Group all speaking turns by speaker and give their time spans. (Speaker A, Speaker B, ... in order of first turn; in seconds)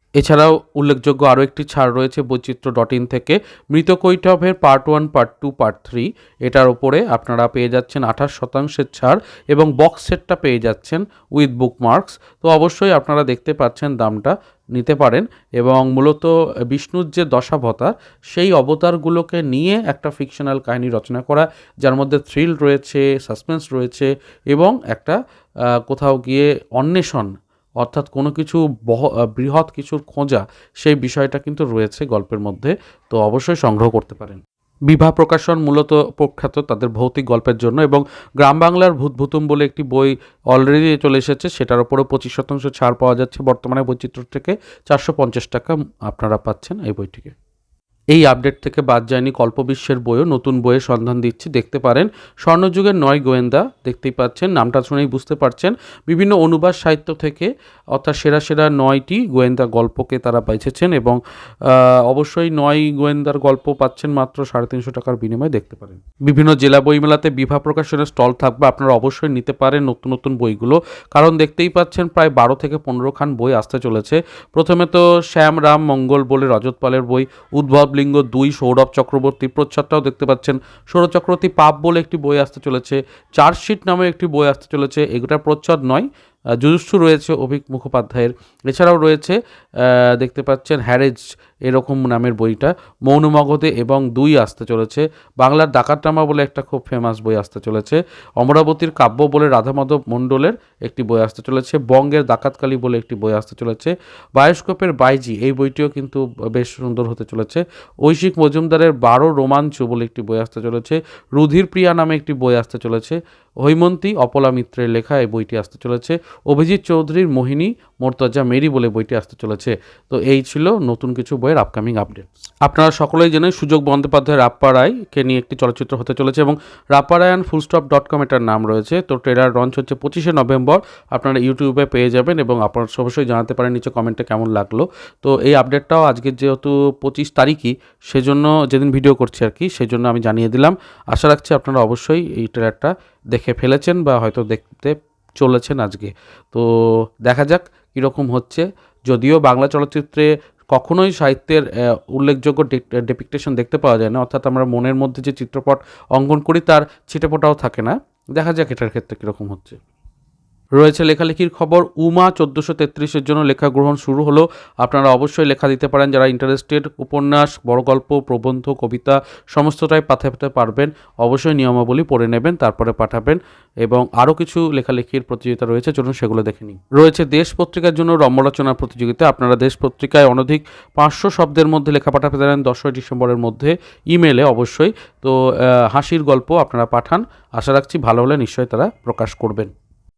Speaker A: 0.2-47.3, 48.1-86.1, 86.6-159.8, 160.8-189.7